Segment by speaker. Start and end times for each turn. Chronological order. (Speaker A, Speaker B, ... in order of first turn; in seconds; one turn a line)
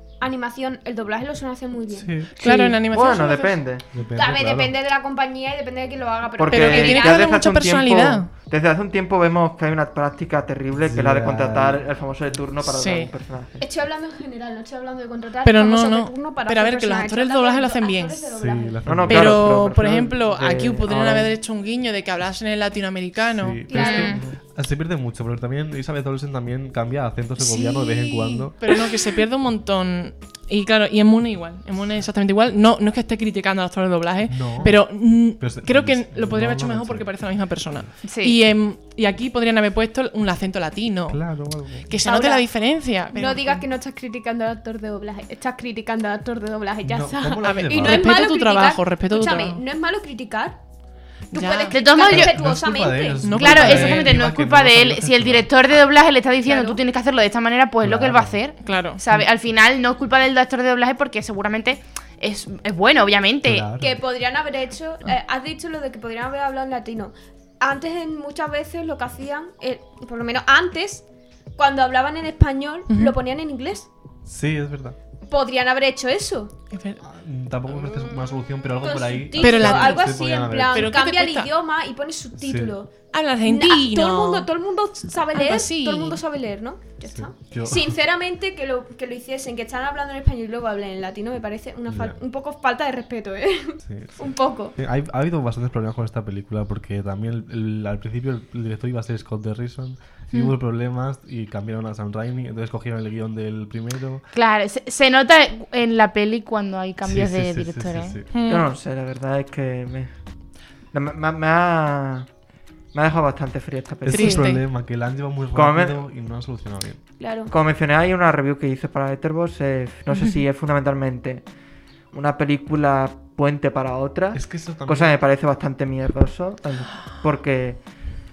Speaker A: 0.2-2.1
Speaker B: 1.9-2.3
Speaker C: 2.4-2.8
Speaker D: 2.4-3.6
Speaker E: 2.9-3.8
Speaker B: 3.9-4.7
Speaker A: 4.1-7.3
Speaker E: 6.4-13.6
Speaker D: 6.5-8.3
Speaker B: 10.8-11.9
Speaker D: 12.7-13.1
Speaker A: 13.6-18.8
Speaker D: 15.4-18.3
Speaker B: 18.4-19.6
Speaker E: 18.8-21.3
Speaker D: 19.1-23.6
Speaker B: 23.3-28.6
Speaker A: 23.7-24.2
Speaker C: 23.7-24.2
Speaker D: 27.4-41.2
Speaker B: 34.3-37.1
Speaker C: 38.0-38.4
Speaker B: 41.1-41.9
Speaker D: 41.8-43.6
Speaker A: 42.0-42.4
Speaker A: 43.1-50.6
Speaker B: 46.8-48.2
Speaker D: 47.4-49.6
Speaker D: 51.3-51.8
Speaker A: 51.3-53.2
Speaker C: 51.6-52.4
Speaker B: 52.0-55.5
Speaker D: 53.2-54.2
Speaker C: 53.3-63.7
Speaker A: 56.5-56.8
Speaker B: 57.8-58.4
Speaker D: 58.6-59.0
Speaker B: 63.4-64.0
Speaker A: 63.8-71.0
Speaker A: 71.6-73.9
Speaker D: 72.9-73.1
Speaker B: 74.2-75.0
Speaker A: 75.3-76.5
Speaker D: 76.7-77.0
Speaker B: 77.0-80.9
Speaker A: 78.8-82.9
Speaker D: 79.4-80.1
Speaker D: 80.7-81.5
Speaker B: 82.4-82.8
Speaker D: 83.1-84.5
Speaker A: 83.4-94.8
Speaker D: 85.3-86.2
Speaker B: 87.1-88.0
Speaker B: 91.9-92.2
Speaker B: 93.8-104.2
Speaker C: 104.3-108.2
Speaker B: 107.0-108.2
Speaker D: 108.3-108.7
Speaker E: 108.5-110.1
Speaker E: 110.9-112.3
Speaker E: 112.9-114.5
Speaker B: 114.0-117.0
Speaker D: 114.1-114.6
Speaker E: 115.5-116.0
Speaker A: 117.2-117.5
Speaker E: 117.5-121.4
Speaker E: 122.1-127.8
Speaker B: 124.3-125.2